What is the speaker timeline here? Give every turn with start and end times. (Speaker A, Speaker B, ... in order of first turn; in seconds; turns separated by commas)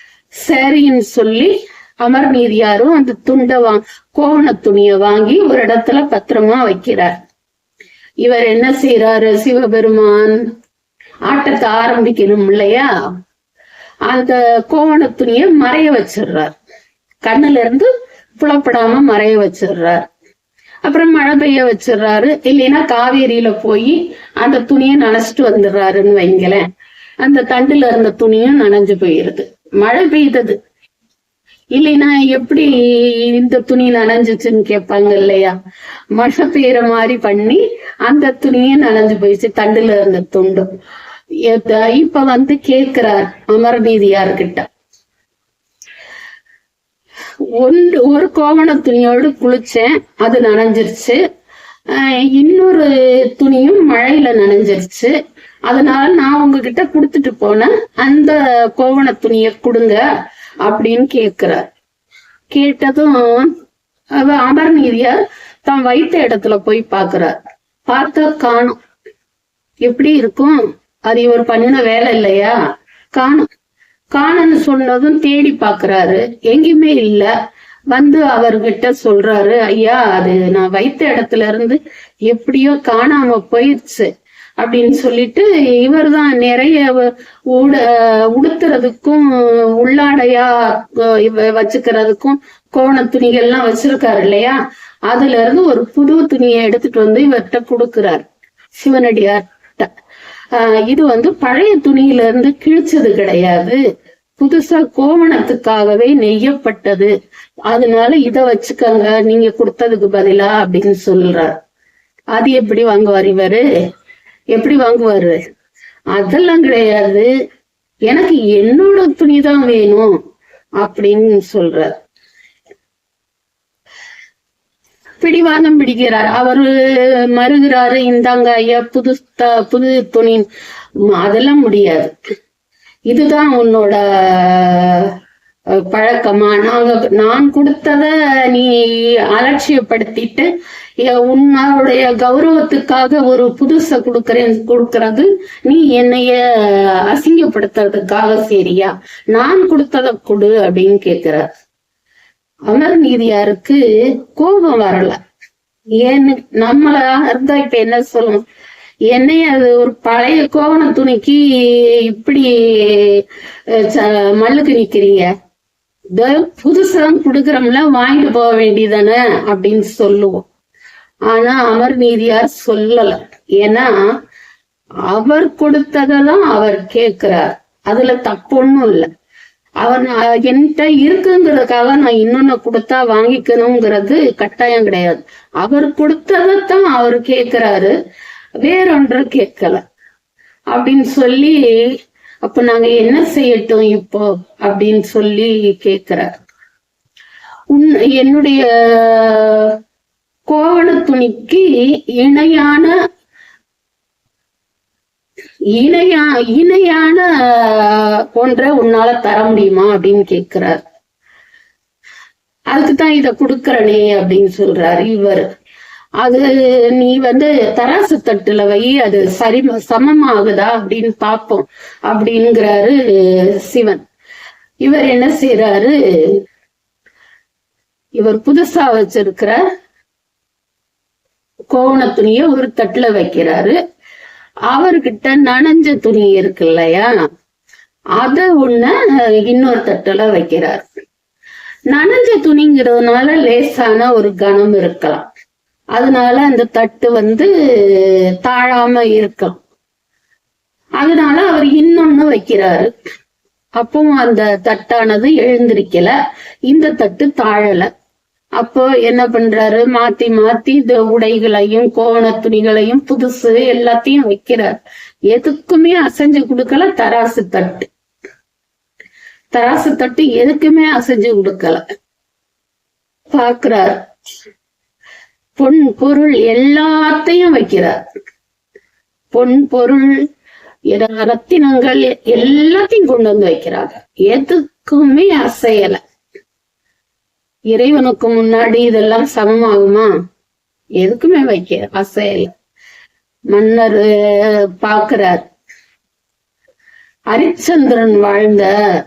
Speaker A: 0.4-7.1, Speaker A: 8.2-10.4, Speaker A: 11.3-12.9, Speaker A: 14.1-16.5, Speaker A: 17.2-20.1, Speaker A: 20.9-26.7, Speaker A: 27.2-30.6, Speaker A: 31.8-35.5, Speaker A: 36.1-40.7, Speaker A: 41.5-44.7, Speaker A: 47.6-51.2, Speaker A: 51.9-55.1, Speaker A: 55.7-60.0, Speaker A: 60.6-61.7, Speaker A: 62.5-63.5, Speaker A: 64.2-67.3, Speaker A: 67.9-68.8, Speaker A: 69.8-72.5, Speaker A: 73.1-73.5, Speaker A: 74.1-77.3, Speaker A: 77.9-84.1, Speaker A: 84.6-98.3, Speaker A: 98.8-99.9, Speaker A: 100.5-103.8, Speaker A: 104.4-107.1, Speaker A: 107.7-111.6, Speaker A: 112.3-113.6, Speaker A: 114.5-115.4, Speaker A: 116.1-117.3, Speaker A: 118.1-120.1, Speaker A: 120.8-122.0, Speaker A: 125.2-130.4, Speaker A: 131.1-132.1, Speaker A: 133.1-135.1, Speaker A: 135.8-138.7, Speaker A: 139.3-140.5, Speaker A: 141.0-151.4, Speaker A: 152.7-155.2, Speaker A: 156.0-158.4, Speaker A: 159.1-165.3, Speaker A: 166.2-170.5, Speaker A: 171.3-174.1, Speaker A: 175.1-179.1, Speaker A: 179.8-187.9, Speaker A: 188.6-189.8, Speaker A: 190.7-191.6, Speaker A: 192.4-196.4, Speaker A: 197.7-199.8, Speaker A: 200.5-202.9, Speaker A: 205.8-210.8, Speaker A: 212.7-215.5, Speaker A: 216.2-224.0, Speaker A: 224.8-226.4, Speaker A: 228.2-229.6, Speaker A: 231.7-233.8, Speaker A: 234.7-237.1, Speaker A: 238.2-240.9, Speaker A: 241.9-245.3, Speaker A: 245.9-249.6, Speaker A: 251.0-252.9, Speaker A: 253.8-256.1, Speaker A: 256.7-257.9, Speaker A: 258.6-264.7, Speaker A: 265.3-267.9, Speaker A: 269.5-271.8, Speaker A: 273.3-274.0, Speaker A: 275.6-278.0, Speaker A: 279.3-280.1, Speaker A: 280.9-286.0, Speaker A: 287.7-290.1, Speaker A: 291.0-292.5, Speaker A: 293.5-295.5, Speaker A: 297.3-298.7